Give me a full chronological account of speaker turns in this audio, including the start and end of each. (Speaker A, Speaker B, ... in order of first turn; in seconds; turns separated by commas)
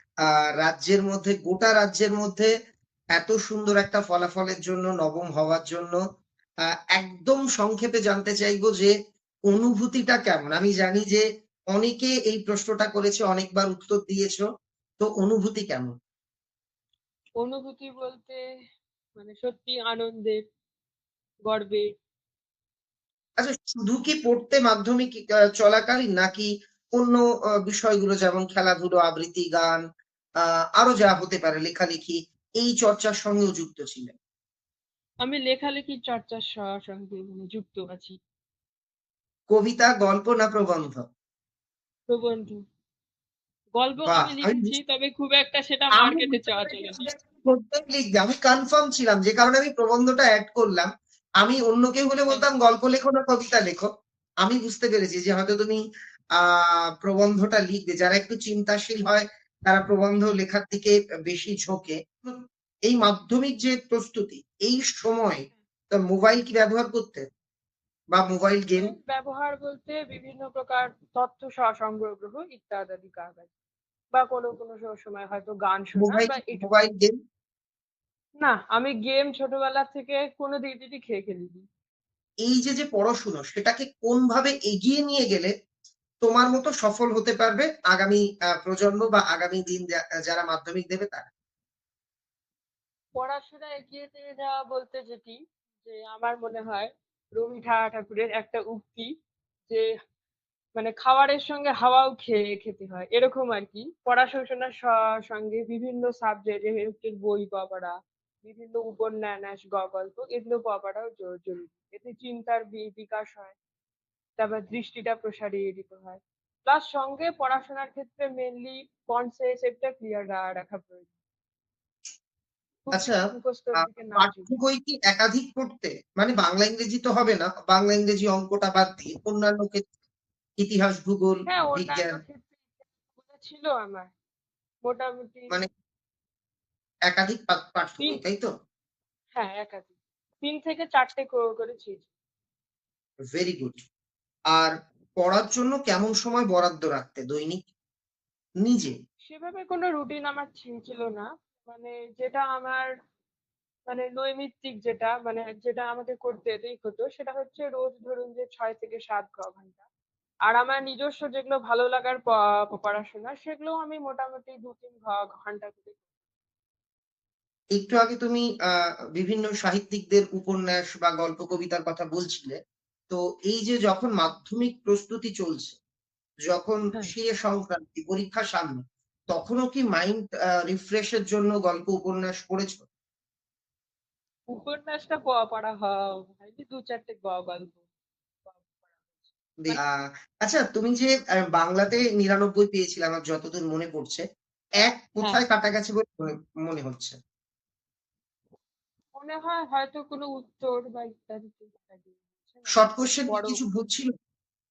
Speaker A: 0.3-2.5, Speaker A: 3.1-6.0, Speaker A: 6.9-8.9, Speaker A: 9.5-14.4, Speaker A: 15.0-15.9, Speaker B: 17.4-18.4, Speaker B: 19.2-20.4, Speaker B: 21.5-21.9, Speaker A: 23.4-29.8, Speaker A: 30.8-34.1, Speaker B: 35.2-38.2, Speaker A: 39.5-41.0, Speaker B: 42.1-42.6, Speaker B: 43.8-47.0, Speaker A: 44.0-44.8, Speaker A: 45.9-50.9, Speaker A: 51.4-53.9, Speaker A: 54.4-55.8, Speaker A: 56.4-67.2, Speaker A: 68.1-68.9, Speaker B: 68.8-73.5, Speaker B: 74.1-76.7, Speaker A: 76.0-77.1, Speaker B: 78.4-81.7, Speaker A: 82.5-85.5, Speaker A: 86.2-91.3, Speaker B: 93.2-99.1, Speaker B: 100.8-113.5, Speaker B: 114.4-121.1, Speaker B: 122.8-124.5, Speaker A: 122.9-123.2, Speaker A: 123.8-129.8, Speaker A: 130.6-132.2, Speaker B: 131.5-132.6, Speaker B: 133.2-134.1, Speaker B: 134.8-135.6, Speaker A: 137.1-138.5, Speaker B: 139.3-139.9, Speaker B: 140.4-142.1, Speaker A: 143.3-143.8, Speaker A: 144.5-147.7, Speaker A: 148.6-148.9, Speaker B: 149.2-152.9, Speaker B: 153.9-159.8, Speaker B: 160.5-166.0, Speaker A: 167.8-172.6, Speaker A: 173.1-175.8, Speaker A: 176.5-182.8, Speaker B: 184.5-187.8, Speaker B: 188.5-189.8, Speaker A: 189.7-194.2, Speaker A: 194.8-197.2, Speaker B: 199.2-203.6, Speaker A: 202.7-204.1